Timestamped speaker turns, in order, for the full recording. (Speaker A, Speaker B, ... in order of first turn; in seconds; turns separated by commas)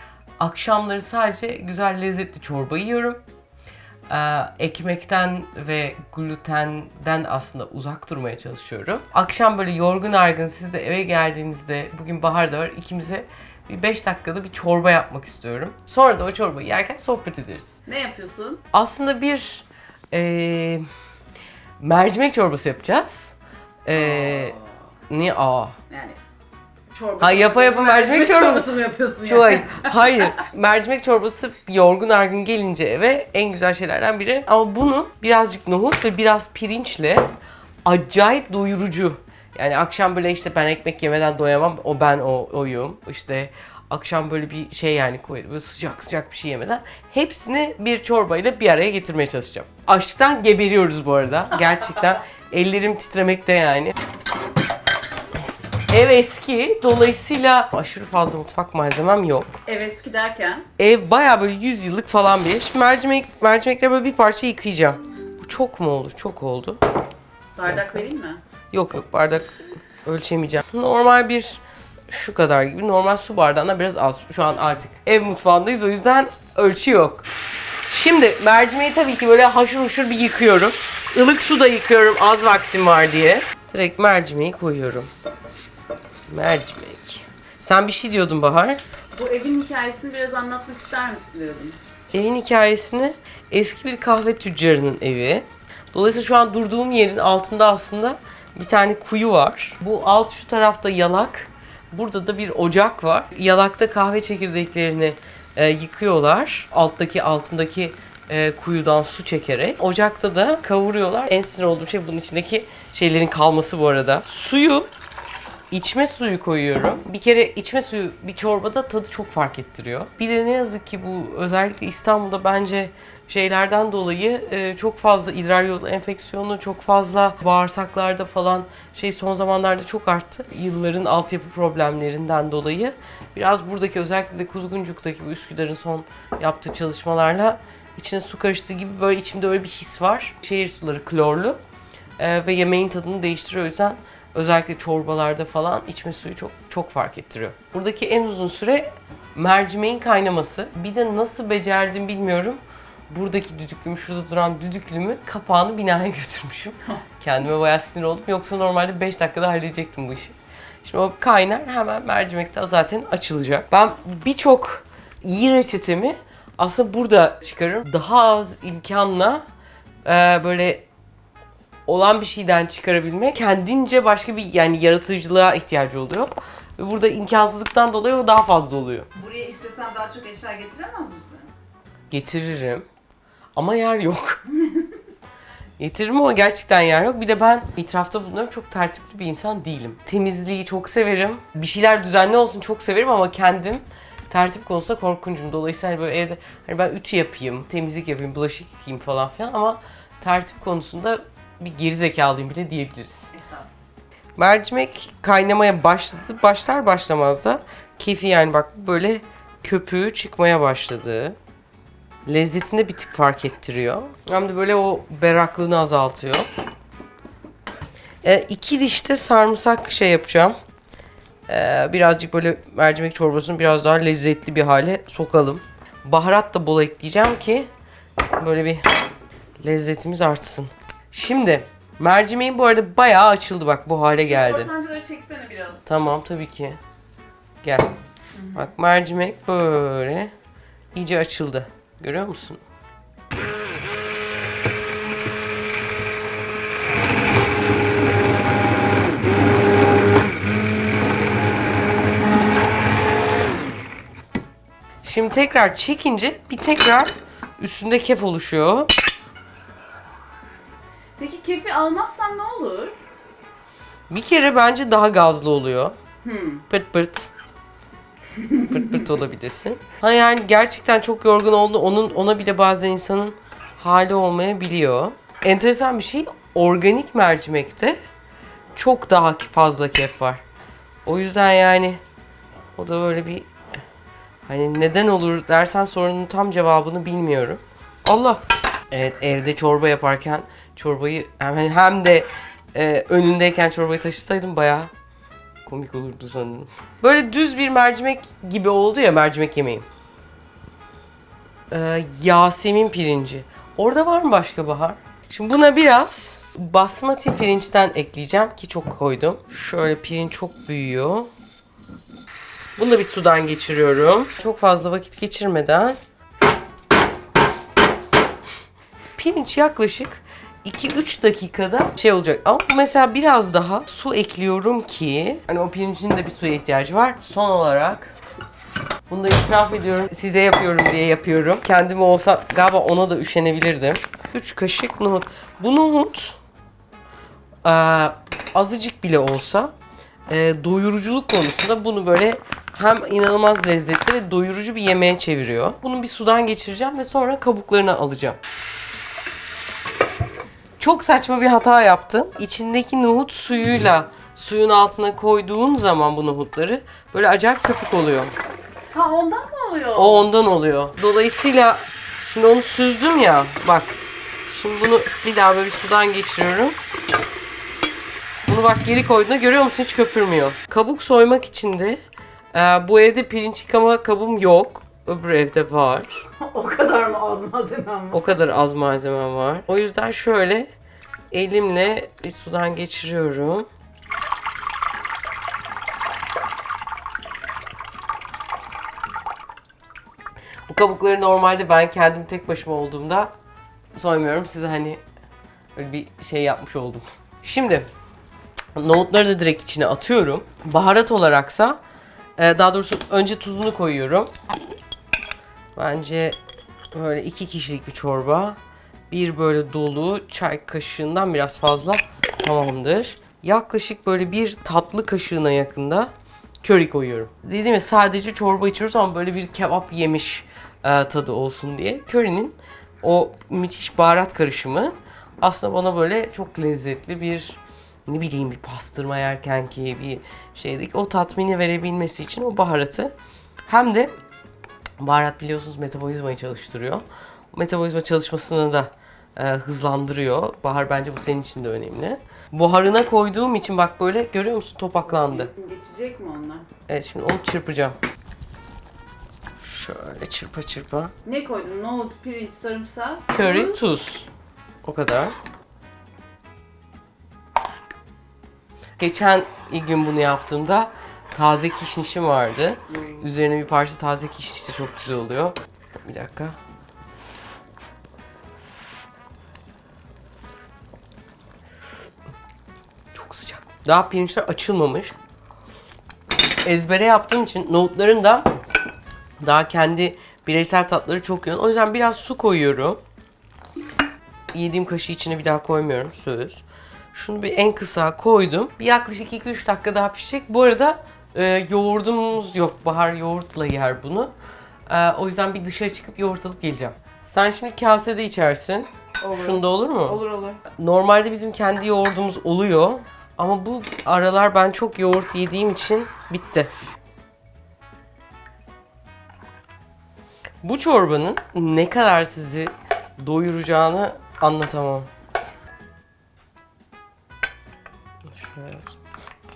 Speaker A: 0.4-3.2, Speaker A: 4.1-17.8, Speaker B: 17.9-18.6, Speaker A: 18.7-20.9, Speaker A: 21.8-24.6, Speaker B: 23.9-24.6, Speaker A: 25.1-25.8, Speaker B: 25.9-26.2, Speaker B: 26.9-30.4, Speaker A: 27.2-37.3, Speaker A: 37.9-54.0, Speaker A: 55.9-59.5, Speaker B: 59.7-60.7, Speaker A: 60.8-66.8, Speaker B: 67.6-68.4, Speaker A: 67.7-68.1, Speaker A: 68.7-69.5, Speaker A: 70.0-77.3, Speaker A: 77.9-85.1, Speaker A: 86.3-88.8, Speaker B: 89.1-91.8, Speaker A: 92.1-114.9, Speaker A: 115.7-141.6, Speaker A: 142.2-169.4, Speaker A: 170.1-170.9, Speaker A: 171.9-179.1, Speaker B: 179.2-181.5, Speaker A: 182.1-182.9, Speaker A: 183.6-184.4, Speaker A: 185.8-203.3, Speaker A: 204.4-211.4, Speaker A: 212.3-216.5, Speaker A: 218.2-220.6, Speaker A: 221.5-227.7, Speaker A: 228.4-228.9, Speaker A: 229.6-234.7, Speaker B: 234.2-235.8, Speaker A: 235.8-236.8, Speaker A: 237.6-237.9, Speaker B: 238.4-238.6, Speaker A: 238.5-240.3, Speaker A: 240.9-242.6, Speaker A: 255.0-258.9, Speaker B: 261.2-263.0, Speaker A: 264.1-266.0, Speaker B: 266.2-266.6, Speaker A: 266.7-267.3, Speaker B: 268.4-268.7, Speaker A: 268.6-278.0, Speaker A: 278.8-280.4, Speaker A: 281.1-282.0, Speaker A: 282.8-283.5, Speaker A: 284.5-294.9, Speaker A: 295.6-299.9, Speaker A: 301.7-311.3, Speaker A: 312.8-316.0, Speaker A: 319.2-328.1, Speaker A: 329.1-336.4, Speaker A: 337.6-339.7, Speaker A: 340.3-348.4, Speaker A: 350.8-358.4, Speaker B: 358.9-360.3, Speaker A: 359.9-366.8, Speaker A: 368.5-372.0, Speaker A: 372.5-376.3, Speaker B: 376.4-378.3, Speaker A: 378.1-380.7, Speaker A: 381.3-383.7, Speaker A: 390.7-393.3, Speaker A: 393.9-395.0, Speaker A: 395.8-397.9, Speaker A: 398.8-401.8, Speaker A: 402.4-404.3, Speaker A: 405.8-406.4, Speaker A: 406.9-408.6, Speaker A: 409.1-416.1, Speaker A: 416.6-433.1, Speaker A: 433.7-434.1, Speaker A: 435.0-445.5, Speaker B: 445.1-446.7, Speaker A: 446.9-448.0, Speaker A: 449.6-451.1, Speaker B: 451.2-453.8, Speaker A: 453.3-454.3, Speaker A: 454.8-455.3, Speaker A: 459.0-466.6, Speaker A: 473.1-475.2, Speaker A: 476.6-478.5, Speaker A: 479.4-483.0, Speaker A: 484.5-494.3, Speaker A: 494.9-506.7, Speaker B: 499.2-500.6, Speaker A: 510.6-515.1, Speaker A: 518.3-519.0